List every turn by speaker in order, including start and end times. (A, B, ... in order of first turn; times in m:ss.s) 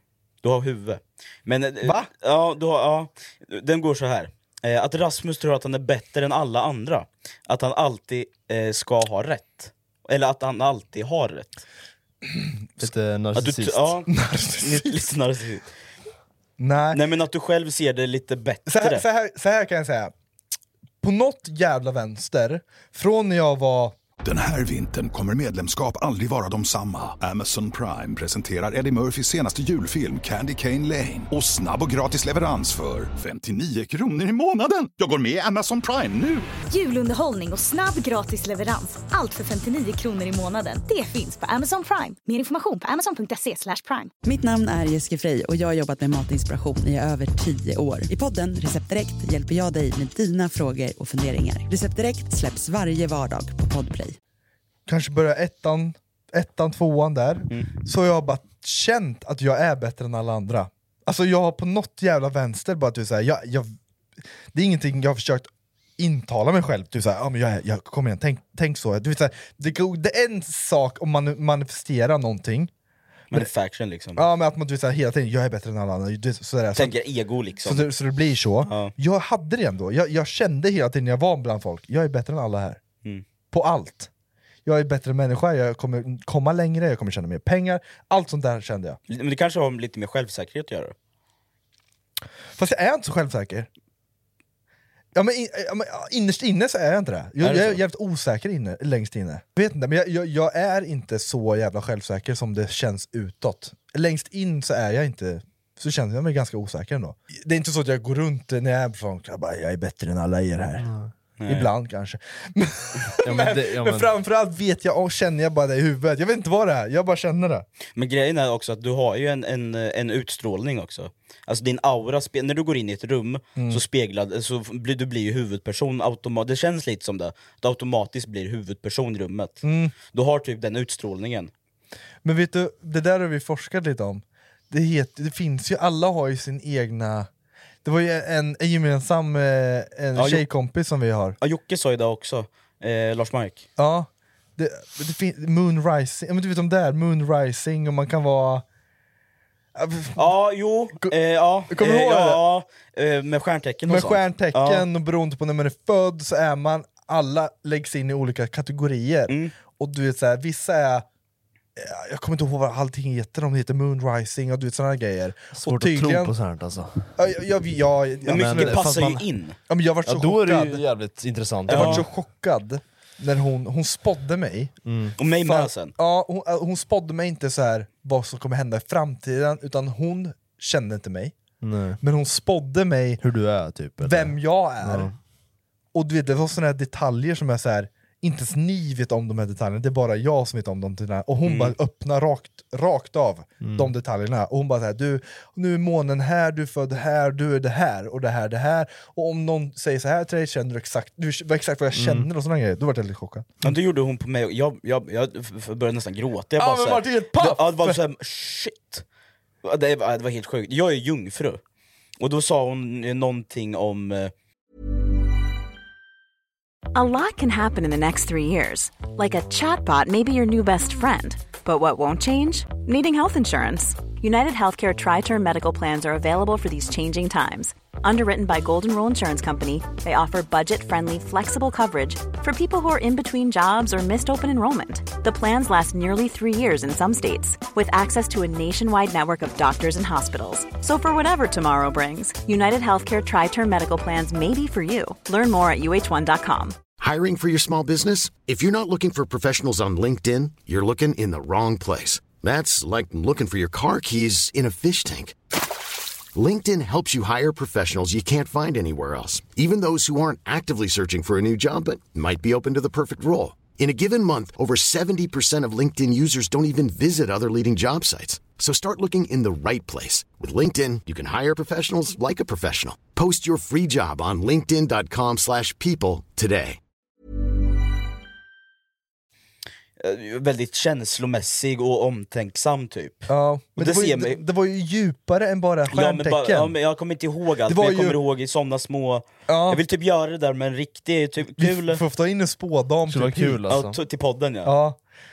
0:00.4-0:11.6 A
0:01.8-0:02.1 B
0:12.3-0:12.8 B
0:12.8-0:13.9 C
0:13.3-0:14.1 A
0:14.1-0:15.0 B
0:14.6-0:15.7 A
0:16.6-0:17.0 B
0:16.9-0:19.0 A
0:18.6-0:20.1 B
0:21.0-0:23.9 B
0:24.2-0:36.5 D
0:36.7-0:44.1 E
0:44.2-0:54.2 F
0:54.9-1:03.7 B
1:04.5-1:12.7 B
1:13.3-1:14.2 A
1:14.2-1:16.9 B
1:16.7-1:17.9 A
1:17.6-1:22.8 B
1:18.6-1:18.9 A
1:23.5-1:24.1 B
1:24.6-1:29.0 B
1:29.1-1:30.9 A
1:32.6-1:33.7 B
1:35.1-1:50.9 B
1:37.4-1:37.8 A
1:50.8-1:51.1 C
1:51.4-1:51.7 A
1:51.5-1:57.6 B
1:53.2-1:54.1 C
1:58.0-2:11.5 A
2:03.6-2:03.8 B
2:09.6-2:09.9 B
2:12.2-2:17.3 B
2:17.8-2:21.4 B
2:20.1-2:20.4 A
2:21.4-2:23.6 A
2:23.8-2:28.6 B
2:29.8-2:30.3 B
2:30.2-2:34.8 A
2:31.7-2:32.4 B
2:33.9-2:41.0 B
2:39.3-2:39.5 A
2:41.8-2:46.3 B
2:45.6-2:47.1 C
2:47.2-2:49.0 B
2:48.2-2:49.6 A
2:48.3-2:49.2 C
2:49.7-2:50.8 B
2:50.0-2:52.0 C
2:51.7-2:52.0 A
2:51.7-2:54.8 B
2:54.8-2:55.1 C
2:55.2-2:55.9 A
2:55.4-3:01.4 B
3:01.6-3:02.0 C
3:02.0-3:03.2 B
3:03.2-3:05.1 C
3:04.0-3:05.1 B
3:05.9-3:23.6 B
3:11.4-3:11.7 A
3:13.6-3:13.9 C
3:21.9-3:22.3 C
3:23.6-3:29.0 A
3:26.6-3:28.0 B
3:29.6-3:31.6 A
3:32.2-3:34.3 A
3:36.9-4:06.8 G
4:07.0-4:15.4 H
4:16.3-4:36.8 H
4:40.0-4:44.4 A
4:43.3-4:46.7 B
4:45.9-4:52.0 A
4:47.7-4:48.2 B
4:49.5-4:49.8 B
4:51.6-4:53.6 B
4:53.1-4:54.0 C
4:53.7-4:54.7 A
4:54.6-4:55.0 B